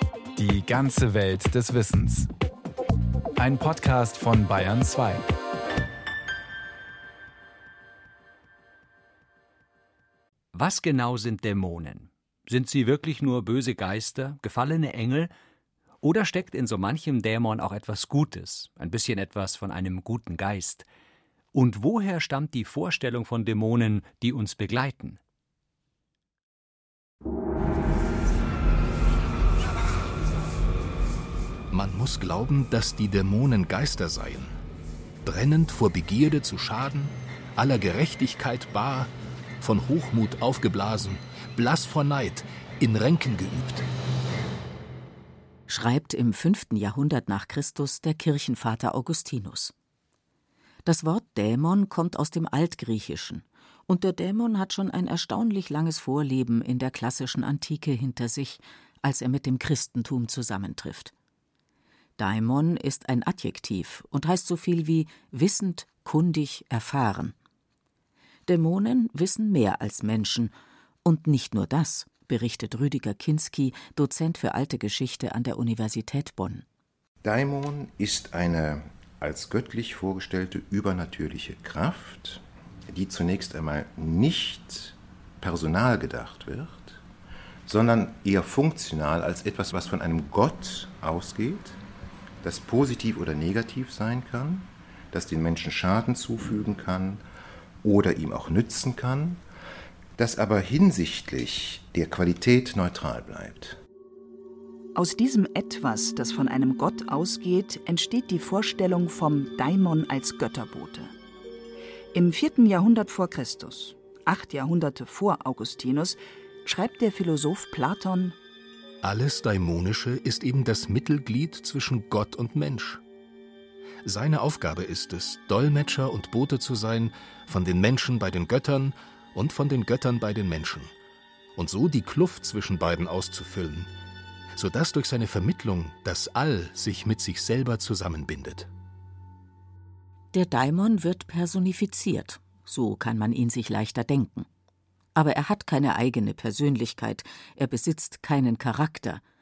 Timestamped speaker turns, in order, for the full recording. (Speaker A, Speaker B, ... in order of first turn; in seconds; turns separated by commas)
Speaker A: 0.3-2.3, Speaker A: 3.4-5.3, Speaker B: 10.5-15.3, Speaker B: 16.0-20.9, Speaker B: 21.5-25.2, Speaker C: 31.7-34.5, Speaker C: 35.2-43.9, Speaker D: 45.7-49.7, Speaker D: 50.8-61.1, Speaker D: 62.2-67.3, Speaker D: 68.5-70.5, Speaker D: 71.0-76.6, Speaker E: 77.2-87.0, Speaker E: 87.7-91.8, Speaker E: 92.4-97.2, Speaker E: 97.8-99.4, Speaker E: 100.2-103.8, Speaker F: 104.9-111.1, Speaker F: 112.1-118.3, Speaker C: 119.0-123.0, Speaker C: 124.0-130.9, Speaker C: 131.6-133.9, Speaker C: 134.6-138.7, Speaker D: 140.3-144.5, Speaker D: 145.1-149.2